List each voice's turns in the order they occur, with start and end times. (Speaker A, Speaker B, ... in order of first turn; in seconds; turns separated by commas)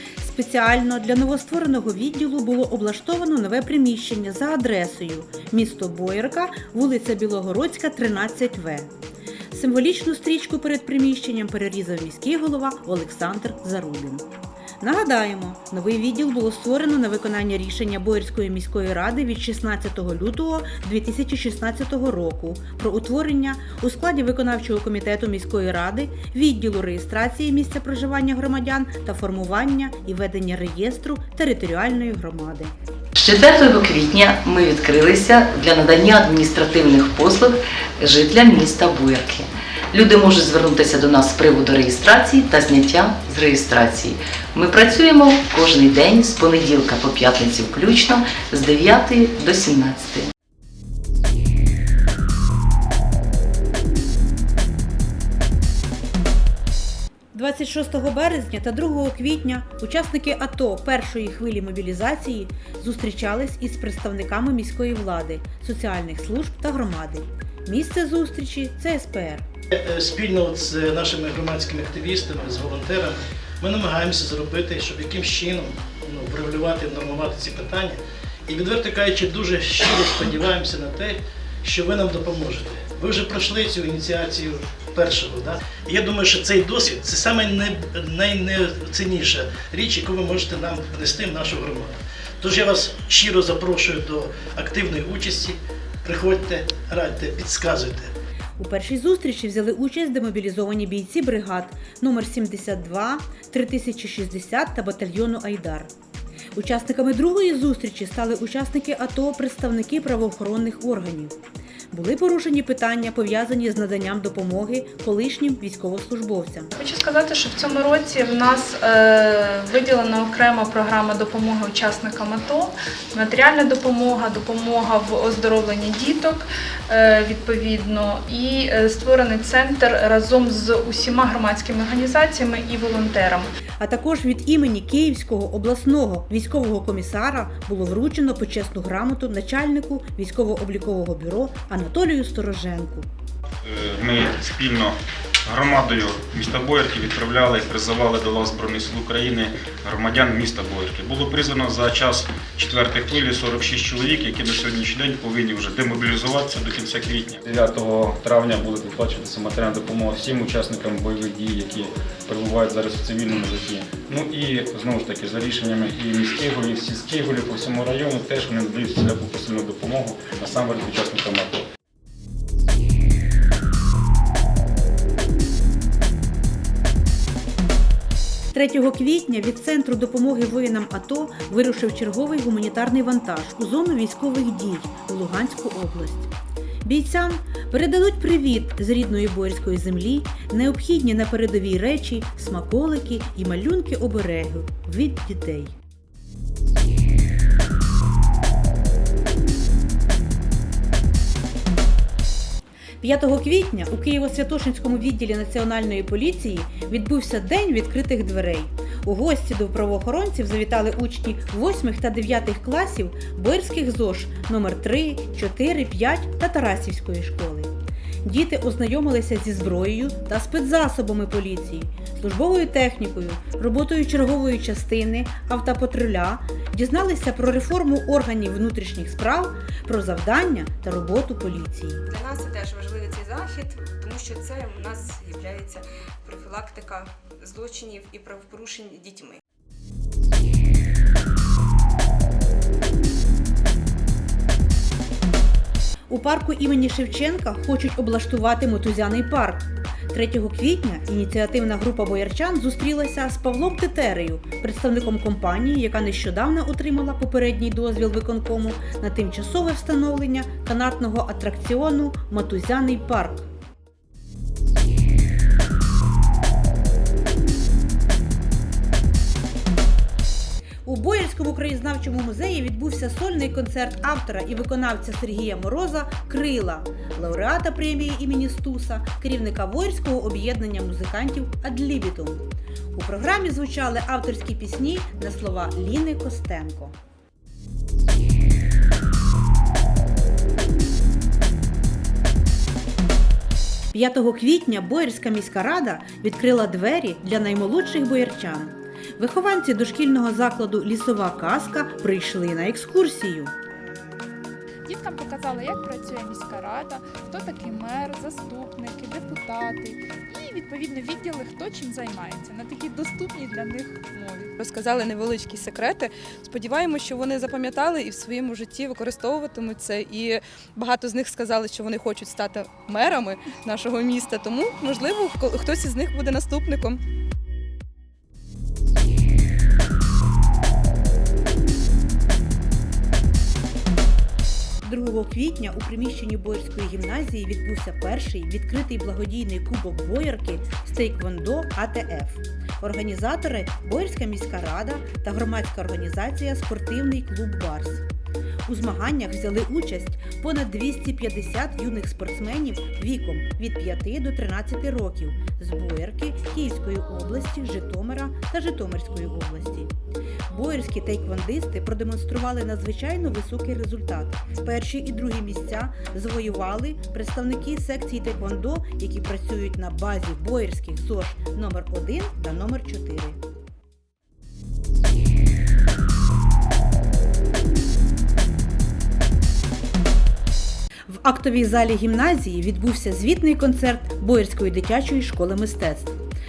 Speaker A: 0.2-8.9, Speaker A: 9.5-14.3, Speaker A: 14.8-32.7, Speaker B: 33.2-50.3, Speaker A: 57.3-69.5, Speaker C: 70.0-91.9, Speaker C: 92.4-98.1, Speaker A: 98.6-105.9, Speaker A: 106.6-111.3, Speaker A: 111.9-116.7, Speaker D: 116.8-133.5, Speaker A: 133.8-143.1, Speaker E: 143.6-171.6, Speaker A: 178.5-186.3, Speaker A: 186.8-195.7, Speaker A: 203.0-217.7, Speaker A: 218.2-232.0, Speaker F: 232.1-239.4, Speaker A: 246.1-263.5, Speaker A: 270.9-282.4, Speaker A: 282.9-286.9, Speaker A: 293.9-303.5, Speaker G: 304.9-314.5, Speaker H: 314.5-327.0, Speaker A: 334.8-348.0, Speaker A: 348.7-359.9, Speaker A: 360.5-373.4, Speaker A: 381.1-386.2